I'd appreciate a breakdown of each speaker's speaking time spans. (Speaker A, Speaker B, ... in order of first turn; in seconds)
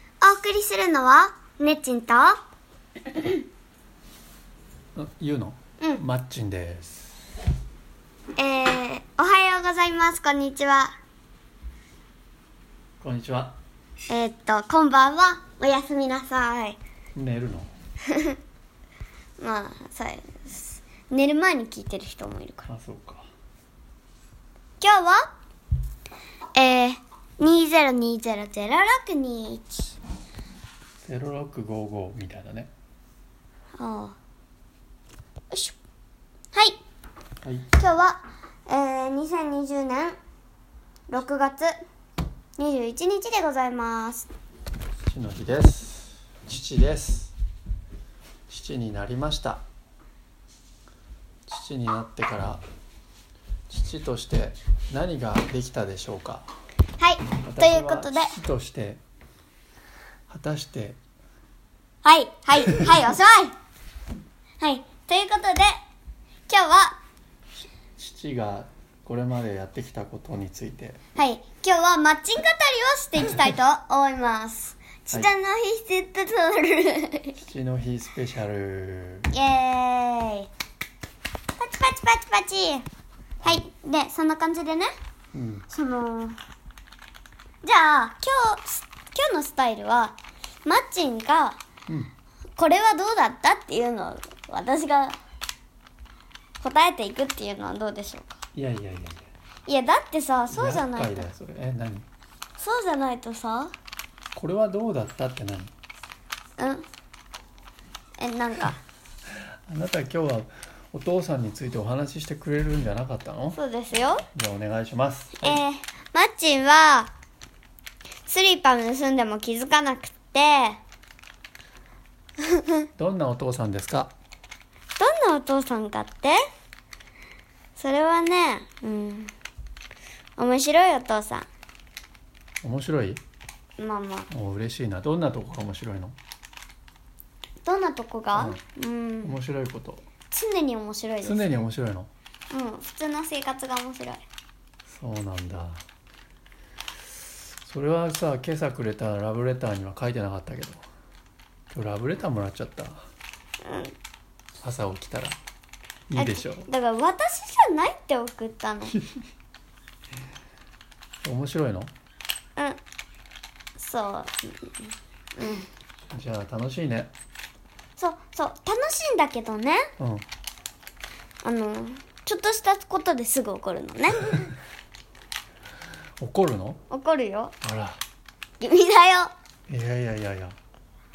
Speaker A: 0.2-2.4, 8.4-10.9, 14.1-16.8, 18.1-18.4, 19.4-22.7, 24.8-25.3, 26.6-30.0, 33.8-34.2, 35.5-35.8, 36.5-36.8, 37.8-40.2, 41.1-41.8, 42.6-44.3, 57.0-58.4, 62.0-63.5, 64.6-65.7, 66.5-67.0, 71.2-77.4, 79.3-80.5, 81.6-82.9, 83.4-84.9, 85.7-86.4, 87.6-91.6, 92.6-95.2, 96.6-98.3, 99.7-101.3, 102.6-103.7, 106.6-106.8, 108.2-108.8, 113.5-114.3, 115.4-117.1, 118.3-120.8, 122.4-122.8, 125.0-126.4, 127.8-129.3, 130.4-131.5, 133.8-134.3, 137.6-139.3, 140.3-141.5, 142.5-144.2, 153.6-153.9, 156.2-159.0, 163.8-165.7, 168.0-169.9, 171.4-174.5, 176.9-177.5, 178.6-179.3
Speaker B: 5.0-7.1, 13.0-13.6, 17.1-17.7, 22.7-23.3, 31.0-32.7, 37.4-37.7, 45.1-47.3, 48.5-49.6, 51.5-52.6, 53.7-56.5, 57.5-59.0, 60.3-61.0, 68.0-71.0, 77.4-79.3, 85.3-85.7, 98.5-99.3, 100.5-102.1, 104.3-105.7, 109.7-113.6, 114.3-115.6, 123.0-124.1, 132.6-133.2, 134.3-136.2, 138.3-138.6, 139.2-140.1, 141.2-142.1, 144.8-145.8, 147.7-150.8, 151.7-153.1, 154.6-155.4, 156.1-156.7, 161.2-161.9, 166.1-167.1, 170.0-170.3, 176.2-176.8, 177.6-178.0, 179.7-180.6